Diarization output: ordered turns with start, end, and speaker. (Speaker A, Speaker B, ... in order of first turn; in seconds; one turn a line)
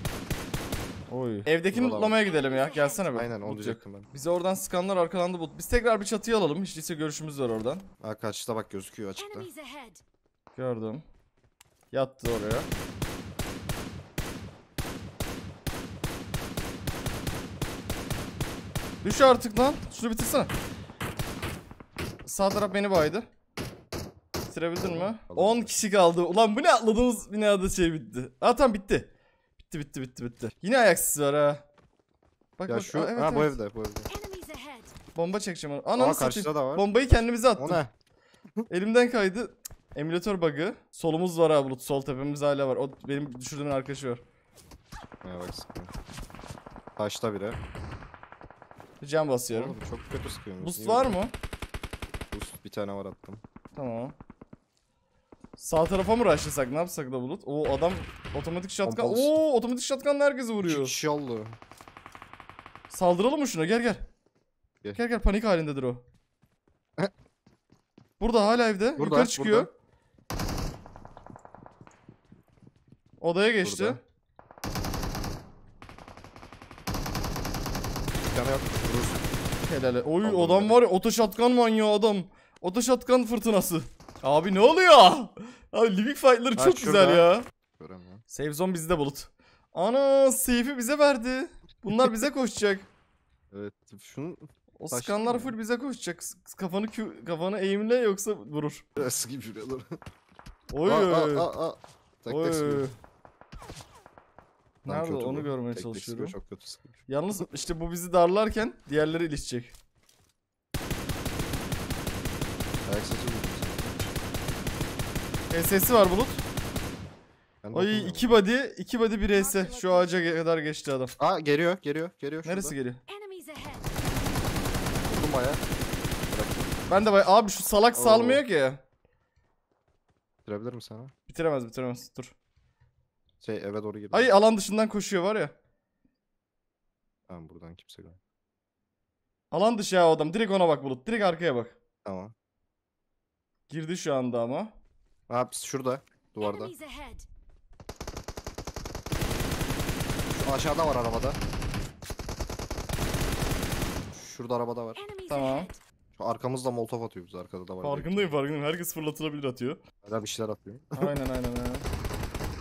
Speaker A: 1.1-7.9
Speaker B: 1.7-2.2
Speaker C: 2.4-3.0
Speaker B: 3.1-4.1
Speaker B: 8.0-9.5
Speaker C: 9.2-10.0
Speaker A: 10.6-11.0
Speaker A: 11.9-12.7
Speaker A: 19.0-20.5
Speaker A: 22.2-23.3
Speaker A: 24.5-29.1
Speaker B: 24.8-25.8
Speaker A: 29.6-31.6
Speaker A: 32.6-33.6
Speaker B: 32.7-34.1
Speaker C: 34.1-34.9
Speaker A: 35.1-37.8
Speaker B: 36.0-36.9
Speaker B: 37.6-37.9
Speaker A: 38.7-44.2
Speaker B: 45.2-45.9
Speaker B: 47.0-47.6
Speaker A: 49.0-49.8
Speaker B: 49.5-51.2
Speaker A: 50.6-51.3
Speaker B: 52.3-53.4
Speaker A: 53.8-54.1
Speaker A: 55.6-60.9
Speaker B: 58.9-59.3
Speaker B: 60.6-61.6
Speaker A: 62.9-64.0
Speaker A: 64.9-66.0
Speaker A: 68.2-69.7
Speaker B: 69.0-69.7
Speaker A: 73.2-74.0
Speaker B: 73.6-74.0
Speaker B: 78.3-79.3
Speaker A: 79.6-87.5
Speaker B: 80.2-80.8
Speaker B: 86.6-88.2
Speaker A: 88.3-92.9
Speaker B: 93.5-95.5
Speaker A: 94.8-98.8
Speaker B: 99.0-100.0
Speaker A: 100.7-101.5
Speaker B: 100.8-102.8
Speaker A: 102.3-102.9
Speaker A: 104.8-106.3
Speaker B: 104.9-107.1
Speaker A: 107.1-109.7
Speaker B: 112.9-114.0
Speaker A: 115.5-116.4
Speaker B: 117.6-118.4
Speaker A: 117.7-121.1
Speaker C: 119.5-120.1
Speaker B: 121.2-122.8
Speaker A: 122.5-123.0
Speaker C: 123.1-123.9
Speaker B: 125.0-125.6
Speaker B: 126.3-126.8
Speaker A: 126.9-128.8
Speaker B: 127.9-128.4
Speaker B: 130.5-131.1
Speaker A: 131.3-132.3
Speaker B: 133.4-134.4
Speaker A: 134.1-135.5
Speaker B: 137.3-138.2
Speaker A: 139.5-141.8
Speaker B: 142.1-142.3
Speaker A: 143.7-144.7
Speaker B: 145.3-146.8
Speaker C: 146.4-147.3
Speaker B: 150.3-151.4
Speaker B: 154.0-155.1
Speaker C: 155.0-155.8
Speaker A: 155.3-155.7
Speaker B: 156.2-158.3
Speaker A: 157.8-159.8
Speaker B: 160.0-161.1
Speaker A: 160.9-161.9